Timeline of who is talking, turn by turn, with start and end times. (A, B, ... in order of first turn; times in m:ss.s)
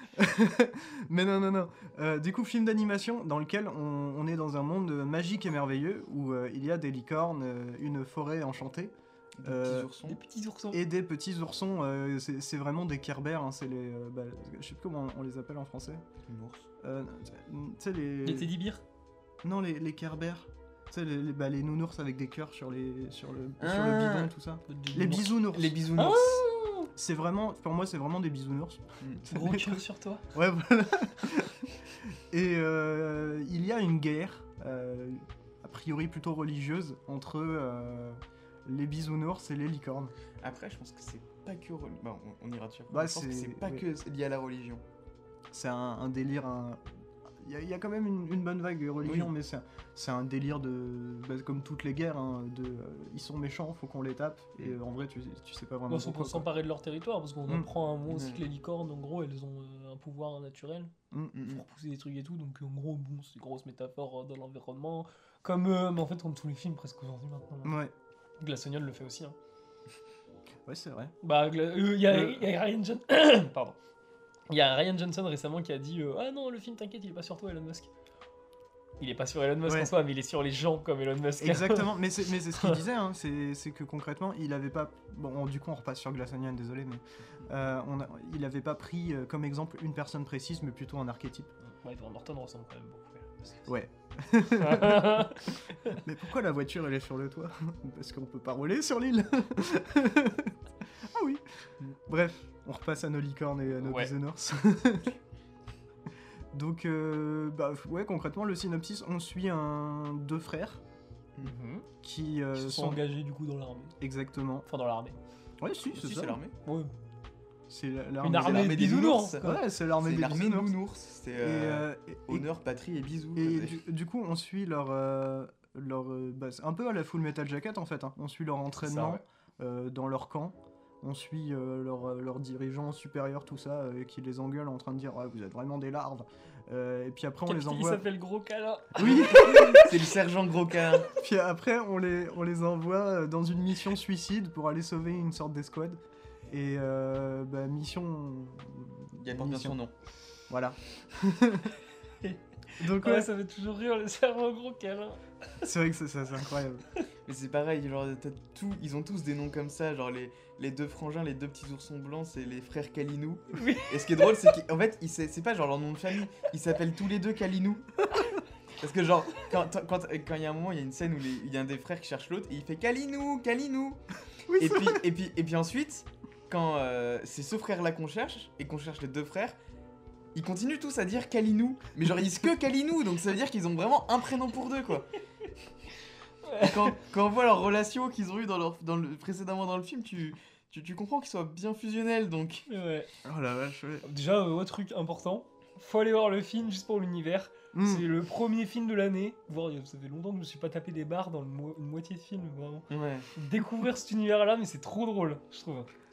0:00.1-0:09.9 A
0:09.4-0:10.2 B
0:10.0-0:10.8 C
0:10.7-0:16.0 A
0:16.3-0:16.7 B
0:16.8-0:18.5 A
0:18.2-0:18.8 C
0:19.4-0:26.0 A
0:23.6-0:24.3 B
0:24.7-0:25.4 C
0:25.5-0:26.4 B
0:26.0-0:26.9 C
0:27.0-0:40.1 A
0:29.0-0:29.3 B
0:29.3-0:30.2 C
0:40.4-0:44.8 B
0:42.9-0:43.8 A
0:45.5-0:46.8 A
0:47.4-0:56.5 A
0:49.0-0:49.3 B
0:55.9-1:00.9 C
0:58.1-0:58.4 B
1:01.1-1:01.4 A
1:01.3-1:01.6 B
1:01.5-1:07.8 C
1:07.6-1:07.9 A
1:08.4-1:09.4 C
1:10.6-1:11.1 A
1:11.2-1:13.8 C
1:12.0-1:12.4 A
1:14.5-1:17.9 C
1:19.0-1:22.8 C
1:19.6-1:19.9 A
1:21.4-1:31.5 A
1:31.6-1:33.7 C
1:33.7-1:41.4 A
1:34.5-1:36.0 C
1:42.1-1:45.2 A
1:43.8-1:44.1 C
1:46.5-1:50.8 A
1:51.4-1:51.9 C
1:52.0-1:53.0 A
1:52.5-1:54.0 C
1:54.0-1:54.6 A
1:54.6-1:55.2 C
1:55.6-1:56.4 A
1:55.9-1:56.5 B
1:56.6-1:56.9 C
1:57.7-2:00.8 A
1:58.2-1:59.5 C
1:58.3-2:03.8 B
2:01.4-2:02.5 A
2:03.4-2:18.1 A
2:08.8-2:09.2 C
2:17.5-2:19.9 C
2:18.9-2:20.0 A
2:19.0-2:21.1 B
2:21.1-2:29.8 A
2:29.2-2:29.9 B
2:30.5-2:31.7 A
2:32.2-2:35.2 C
2:32.8-2:33.3 A
2:35.6-2:36.8 A
2:37.2-2:48.0 B
2:43.5-2:44.5 C
2:48.8-2:54.0 B
2:54.5-2:55.0 A
2:54.5-2:59.6 B
3:00.3-3:05.1 B
3:06.4-3:06.9 C
3:06.6-3:12.7 B
3:12.7-3:13.1 C
3:13.2-3:14.0 A
3:14.0-3:25.9 C
3:17.7-3:18.0 A
3:22.9-3:23.3 B